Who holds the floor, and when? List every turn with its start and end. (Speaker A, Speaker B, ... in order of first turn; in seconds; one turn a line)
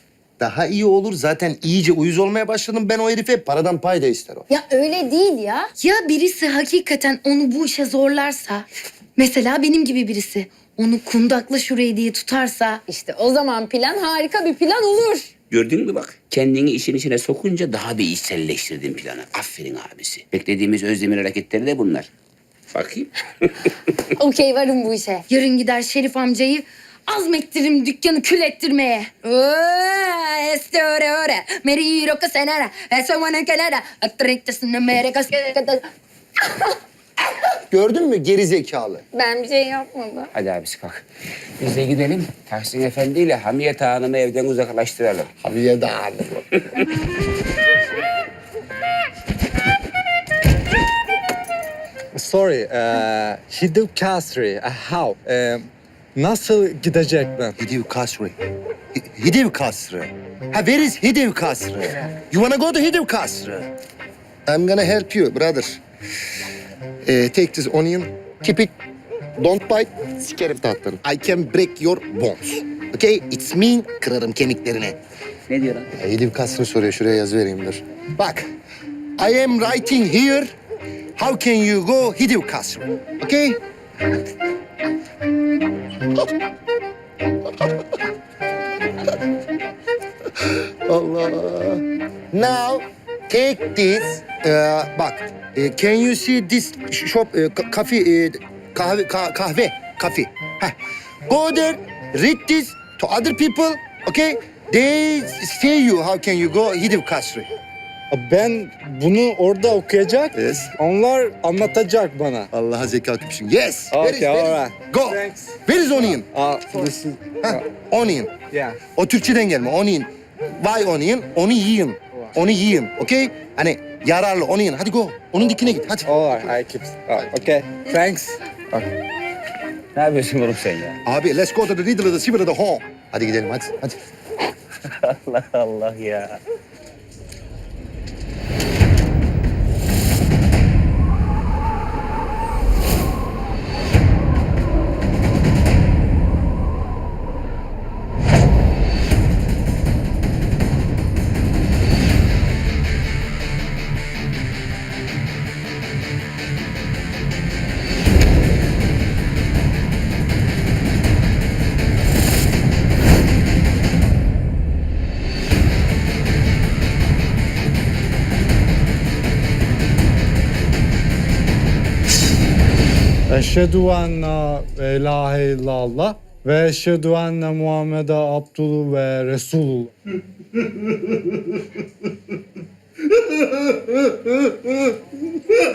Speaker A: 0.4-4.5
Speaker B: 4.5-15.3
Speaker C: 15.5-22.1
Speaker C: 22.7-23.7
Speaker B: 24.2-35.9
Speaker B: 36.4-36.7
Speaker A: 37.7-39.0
Speaker B: 39.1-40.3
Speaker C: 40.3-41.0
Speaker C: 41.6-45.3
Speaker A: 45.4-46.4
Speaker D: 52.2-57.6
Speaker A: 57.6-58.4
Speaker A: 59.0-63.7
Speaker A: 64.5-65.8
Speaker A: 67.0-68.8
Speaker A: 69.4-75.0
Speaker C: 75.5-75.9
Speaker A: 75.9-78.5
Speaker A: 79.2-80.5
Speaker A: 81.2-83.6
Speaker A: 90.4-107.5
Speaker D: 108.1-112.5
Speaker A: 110.3-110.7
Speaker A: 112.5-116.3
Speaker D: 113.9-117.7
Speaker A: 117.4-118.4
Speaker D: 118.5-118.8
Speaker A: 118.9-126.5
Speaker D: 126.0-128.9
Speaker C: 129.9-131.0
Speaker A: 131.1-134.0
Speaker C: 135.0-136.4
Speaker D: 173.3-179.9